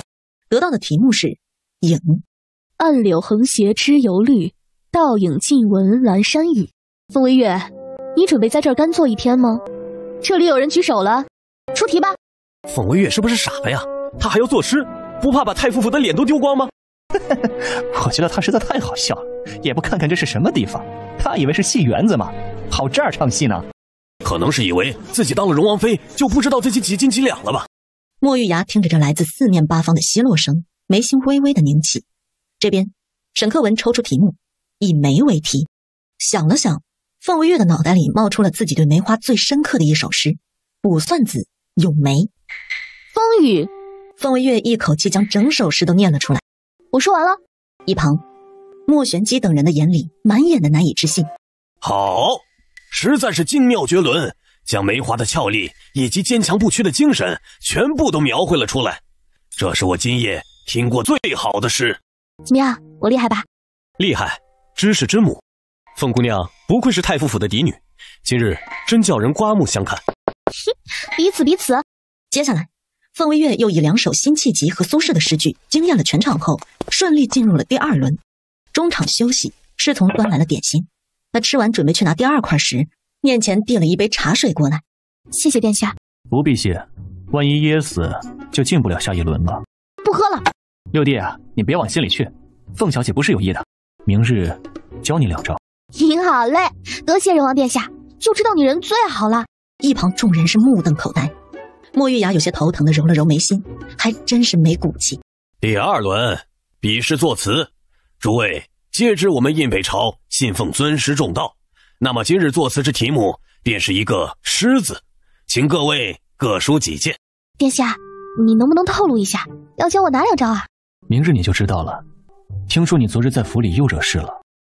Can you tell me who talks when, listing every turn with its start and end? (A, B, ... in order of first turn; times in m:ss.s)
0:00.5-0:02.2 A
0:02.8-0:09.6 B
0:10.2-0:12.2 B
0:12.7-0:16.7 C
0:17.9-0:23.6 D
0:24.2-0:27.7 C
0:28.2-0:32.0 A
0:32.6-0:35.7 A
0:36.2-0:42.3 A
0:43.1-0:43.7 B
0:44.2-0:46.4 A
0:46.9-0:47.4 B
0:47.9-0:48.2 A
0:48.9-0:51.3 A
0:51.8-0:59.0 C
0:59.6-1:02.0 C
1:02.4-1:03.5 B
1:04.0-1:05.4 C
1:06.0-1:10.0 C
1:10.7-1:11.8 B
1:12.3-1:18.2 A
1:18.7-1:24.8 A
1:25.3-1:26.0 B
1:26.3-1:29.6 D
1:30.0-1:30.5 B
1:30.9-1:35.6 D
1:36.0-1:39.5 B
1:39.8-1:41.3 A
1:41.9-1:45.2 A
1:45.6-1:47.7 C
1:48.2-1:57.2 C
1:57.6-2:00.7 B
2:01.1-2:02.0 D
2:02.7-2:04.4 D